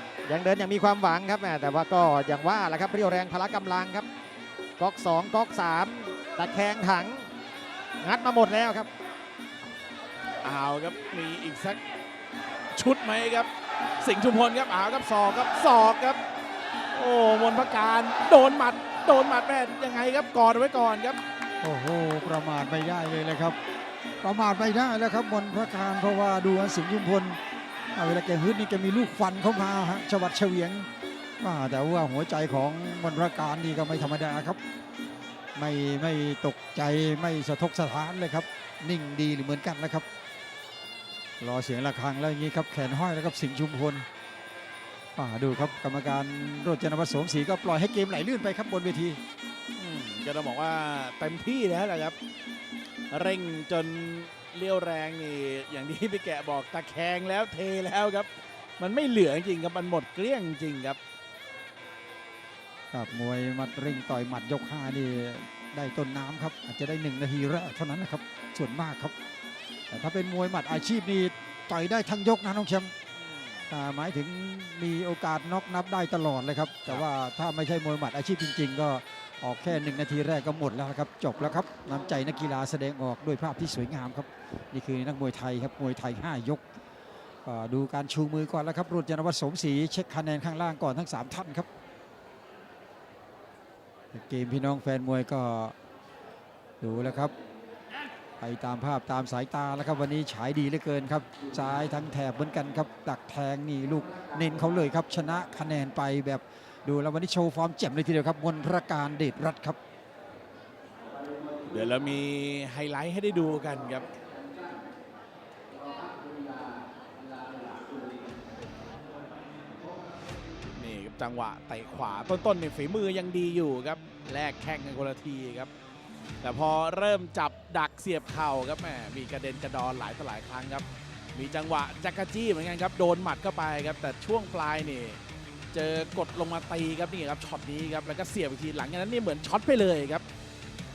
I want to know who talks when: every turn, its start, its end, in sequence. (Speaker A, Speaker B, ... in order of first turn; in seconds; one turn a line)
Speaker A: 0.3-4.1
Speaker A: 4.8-7.3
Speaker A: 8.0-8.9
Speaker B: 10.4-11.8
Speaker B: 12.7-13.5
Speaker B: 14.0-16.2
Speaker B: 16.9-21.2
Speaker C: 21.6-23.6
Speaker C: 24.2-27.4
Speaker C: 27.9-30.9
Speaker C: 31.4-34.6
Speaker C: 35.5-40.0
Speaker C: 41.4-44.0
Speaker C: 45.1-49.2
Speaker B: 49.8-52.1
Speaker B: 53.1-61.0
Speaker C: 62.9-69.1
Speaker C: 69.9-72.9
Speaker C: 73.7-86.6
Speaker C: 87.4-91.7
Speaker C: 94.1-95.7
Speaker C: 96.8-97.3
Speaker C: 98.4-109.8
Speaker B: 111.6-114.1
Speaker B: 117.6-118.0
Speaker B: 120.7-125.7
Speaker B: 126.4-135.2
Speaker B: 135.7-140.2